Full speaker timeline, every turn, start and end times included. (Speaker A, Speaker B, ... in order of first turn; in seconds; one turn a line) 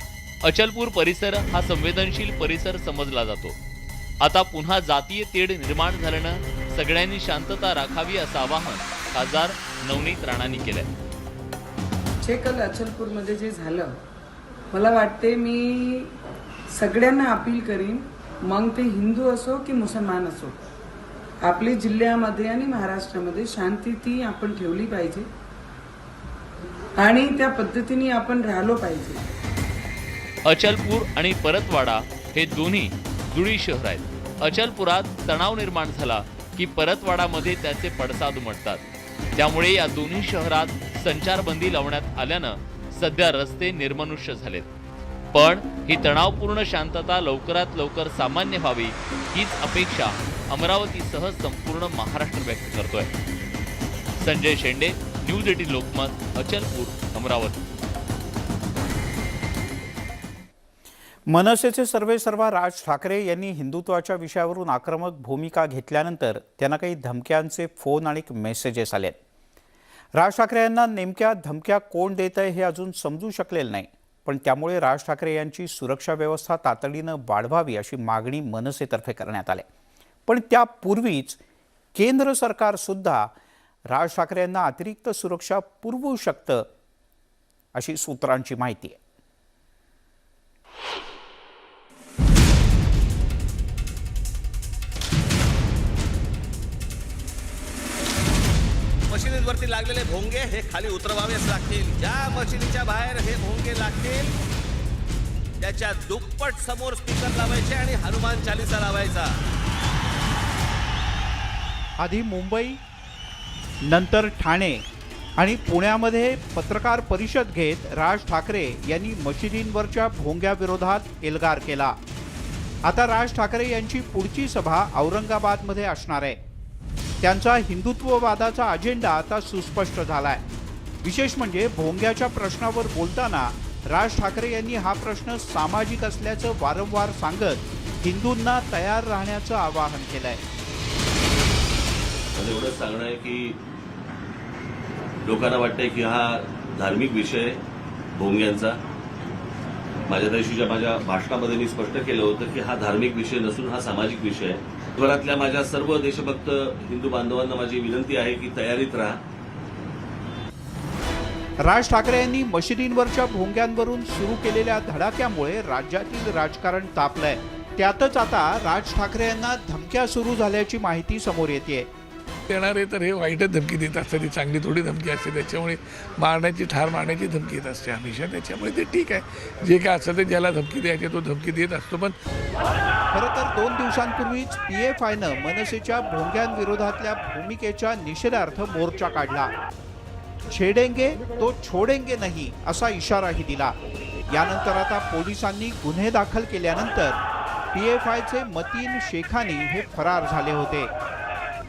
Speaker A: 0.4-3.5
Speaker A: 4.2-10.9
Speaker B: 12.2-14.0
Speaker B: 14.7-16.1
Speaker B: 16.7-20.6
Speaker B: 21.4-25.3
Speaker B: 27.0-29.2
Speaker A: 30.4-38.8
Speaker A: 39.3-44.7
Speaker A: 45.3-53.1
Speaker A: 54.2-57.6
Speaker C: 61.3-69.2
Speaker C: 70.1-79.7
Speaker C: 80.3-81.4
Speaker C: 81.9-83.3
Speaker C: 83.9-86.7
Speaker C: 87.7-89.0
Speaker D: 99.1-104.3
Speaker D: 105.6-109.3
Speaker C: 112.0-112.8
Speaker C: 113.8-114.8
Speaker C: 115.4-122.0
Speaker C: 122.8-126.4
Speaker C: 127.2-130.4
Speaker C: 131.0-140.4
Speaker E: 142.3-143.6
Speaker E: 145.2-147.6
Speaker E: 148.1-148.8
Speaker E: 150.1-159.2
Speaker C: 161.6-171.9
Speaker F: 172.5-182.1
Speaker C: 183.1-189.5
Speaker C: 190.5-193.8
Speaker C: 194.3-197.2
Speaker C: 197.7-200.9